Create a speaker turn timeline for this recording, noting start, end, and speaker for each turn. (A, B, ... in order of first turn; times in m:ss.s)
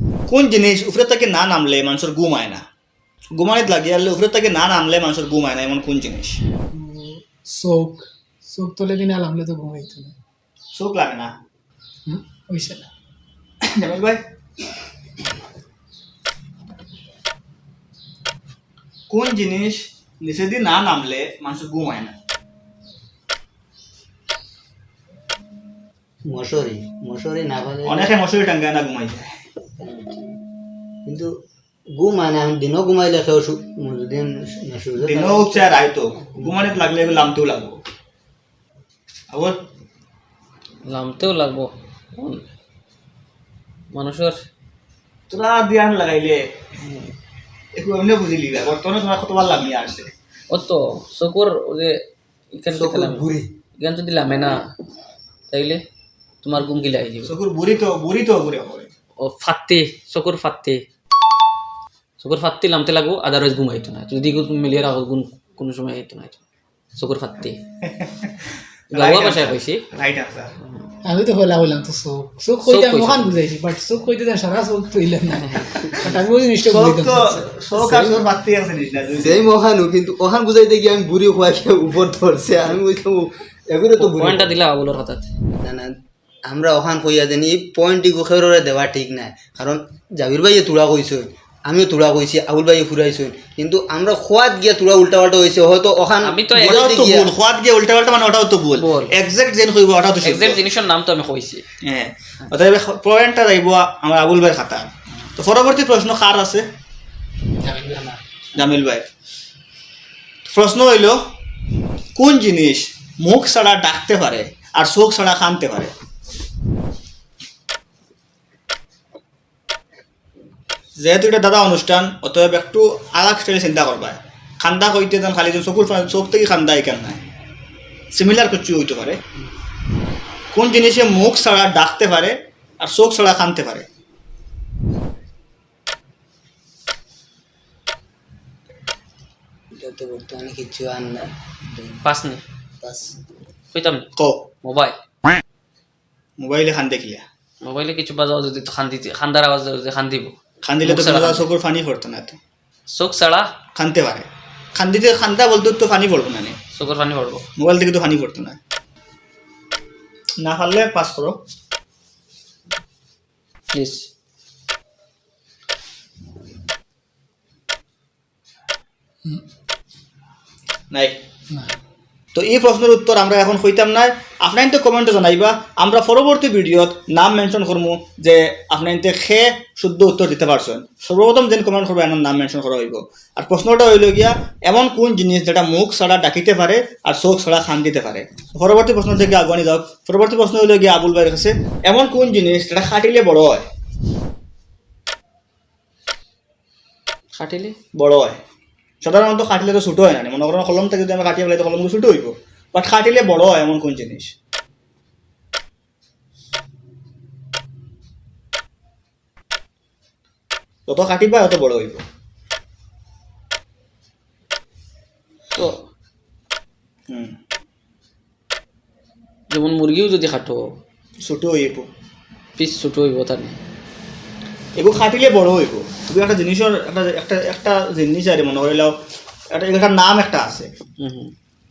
0:00.3-0:02.6 A
0:03.3-0:06.4 A
0:06.7-0:10.1 B
0:10.7-0:11.3 A
0:12.1-0:12.9 B
0:13.6-0:14.2 A
0:19.1-0:22.1 A
0:26.3-0:28.1 C
0:27.8-0:29.4 A
0:29.8-0:30.0 C
0:31.0-0:31.3 C
0:31.9-0:35.8 C
0:35.0-0:37.8 A
0:39.3-0:39.6 A
0:40.8-0:42.4 D
0:43.9-0:44.4 D
0:45.3-0:46.5 A
0:46.8-0:47.1 D
0:47.7-0:50.1 A
0:50.5-0:52.0 D
0:52.5-0:54.6 D
0:52.7-0:53.5 C
0:55.5-0:55.8 D
0:56.4-0:57.3 D
0:57.2-0:58.9 A
0:59.2-1:00.8 D
1:02.2-1:06.4 D
1:07.0-1:07.6 D
1:07.8-1:10.5 A
1:08.9-1:09.8 D
1:11.0-1:18.2 B
1:12.7-1:13.3 D
1:15.4-1:15.8 D
1:16.6-1:19.4 A
1:19.2-1:24.5 C
1:24.0-1:25.3 D
1:25.6-1:25.9 C
1:26.5-1:37.3 C
1:36.2-1:36.8 D
1:36.6-1:40.6 A
1:38.8-1:39.1 D
1:40.2-1:41.6 D
1:41.8-1:46.6 A
1:47.6-1:48.2 B
1:48.5-1:49.0 A
1:50.5-1:51.2 A
1:52.2-1:55.9 A
2:01.0-2:07.2 A
2:08.1-2:09.2 A
2:10.5-2:13.9 A
2:19.7-2:22.0 C
2:22.0-2:22.4 D
2:22.8-2:23.1 C
2:23.7-2:24.1 D
2:24.2-2:24.4 A
2:24.6-2:25.0 D
2:26.4-2:27.2 A
2:27.6-2:31.5 D
2:30.6-2:32.4 A
2:32.9-2:33.5 D
2:33.8-2:36.6 A
2:36.7-2:37.4 D
2:37.6-2:38.6 A
2:40.4-2:41.4 A
2:43.7-2:44.1 D
2:50.9-2:51.2 A
2:52.3-3:13.6 A
3:17.3-3:17.8 D
3:17.9-3:18.4 A
3:19.0-3:24.3 A
3:30.9-3:32.0 A
3:37.1-3:37.4 A
3:39.5-3:40.7 D
3:41.2-3:41.9 A
3:42.6-3:43.6 D
3:44.8-3:48.9 A
3:49.5-3:50.7 A
3:51.0-3:51.3 D